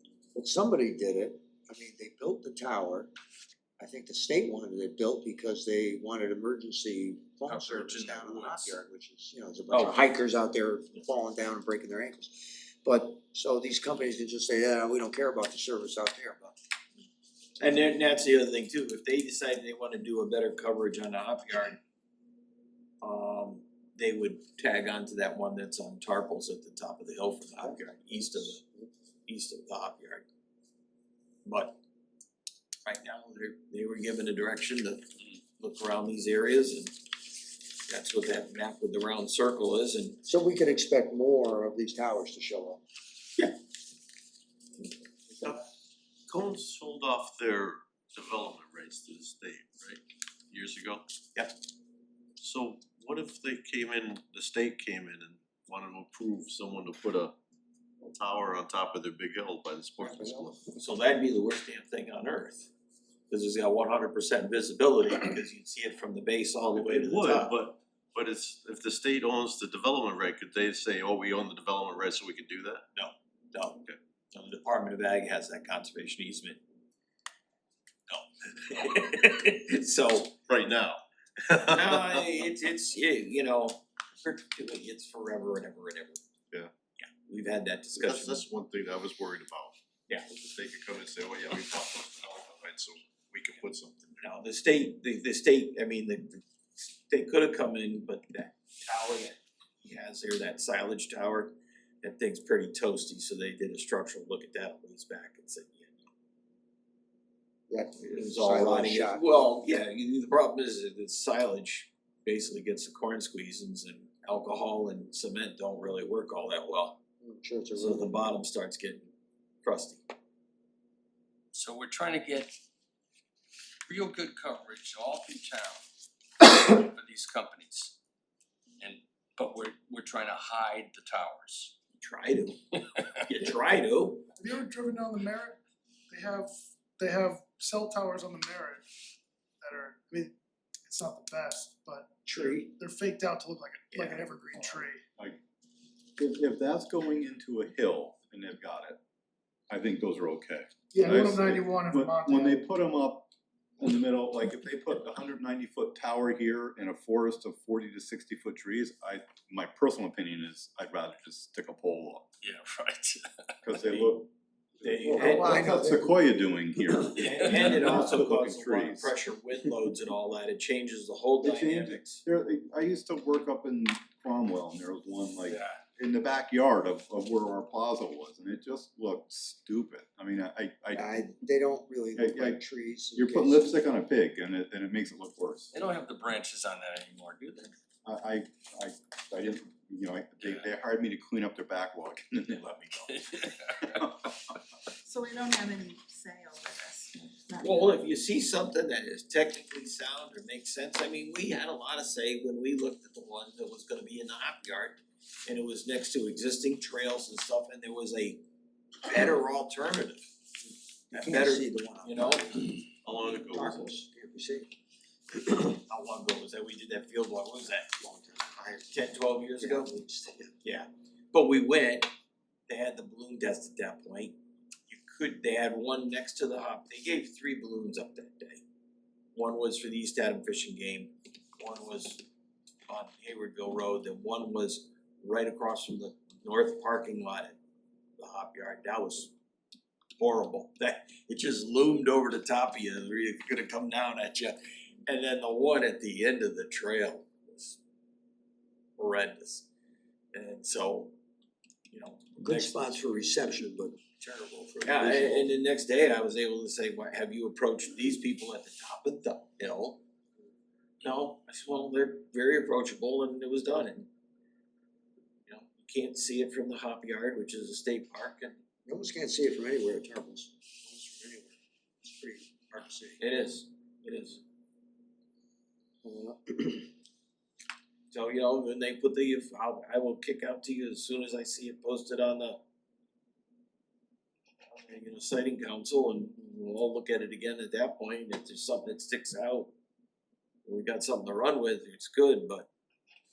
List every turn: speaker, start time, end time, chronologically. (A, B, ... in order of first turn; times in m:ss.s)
0:00.3-0:03.1 A
0:03.8-0:16.6 A
0:07.4-0:08.8 B
0:09.7-0:10.0 C
0:17.6-0:21.8 C
0:23.0-0:28.6 C
0:29.3-0:30.2 C
0:31.4-0:31.8 C
0:32.8-0:36.9 C
0:37.8-0:40.2 C
0:40.2-0:42.8 A
0:46.3-0:51.1 D
0:52.4-0:57.3 D
0:58.0-1:00.6 D
1:00.0-1:00.6 A
1:00.8-1:02.7 C
1:03.3-1:07.5 C
1:06.7-1:12.8 D
1:12.9-1:16.6 C
1:18.1-1:20.3 C
1:20.5-1:22.2 D
1:21.7-1:26.2 C
1:27.0-1:28.4 C
1:27.9-1:34.1 D
1:34.2-1:46.0 C
1:47.7-1:49.3 A
1:48.0-1:57.0 C
1:57.2-1:58.1 A
1:57.8-1:59.1 C
1:59.6-2:00.0 C
2:01.5-2:02.5 B
2:03.9-2:05.8 B
2:06.4-2:07.9 B
2:08.8-2:11.7 B
2:12.0-2:12.6 C
2:13.2-2:14.3 C
2:14.4-2:15.6 E
2:16.1-2:18.8 E
2:19.6-2:20.3 E
2:20.8-2:25.0 E
2:22.3-2:22.7 A
2:23.9-2:24.5 C
2:24.5-2:25.4 F
2:26.2-2:29.0 F
2:29.7-2:33.3 F
2:30.9-2:32.6 E
2:33.8-2:42.2 F
2:42.4-2:43.5 B
2:43.6-2:49.1 F
2:43.8-2:44.1 C
2:44.8-2:45.7 C
2:45.1-2:46.1 A
2:47.0-2:52.2 C
2:51.4-3:01.2 F
2:55.4-2:55.8 B
3:00.9-3:03.8 A
3:02.1-3:02.6 F
3:03.1-3:05.7 F
3:05.7-3:07.7 B
3:08.0-3:12.7 F
3:10.4-3:10.7 B
3:12.5-3:13.2 C
3:13.1-3:14.1 B
3:14.0-3:14.3 F
3:15.0-3:17.7 G
3:17.6-3:28.4 C
3:29.0-3:30.3 C
3:31.1-3:34.7 A
3:31.1-3:32.6 C
3:33.0-3:33.9 D
3:35.8-3:37.9 C
3:37.8-3:39.0 A
3:38.9-3:39.9 C
3:39.6-3:40.5 A
3:40.6-3:42.1 C
3:42.7-3:44.4 C
3:44.9-3:48.6 C
3:49.3-3:52.2 C
3:52.9-3:57.6 C
3:58.2-3:59.3 C
4:00.2-4:07.8 C
4:09.0-4:09.7 C
4:10.3-4:11.1 C
4:11.9-4:12.8 C
4:12.4-4:15.5 A
4:14.8-4:20.0 C
4:21.0-4:24.1 C
4:25.5-4:28.6 C
4:28.8-4:33.2 A
4:33.2-4:34.4 C
4:36.0-4:36.9 A
4:38.1-4:42.6 C
4:44.7-4:49.7 C
4:50.6-4:52.7 C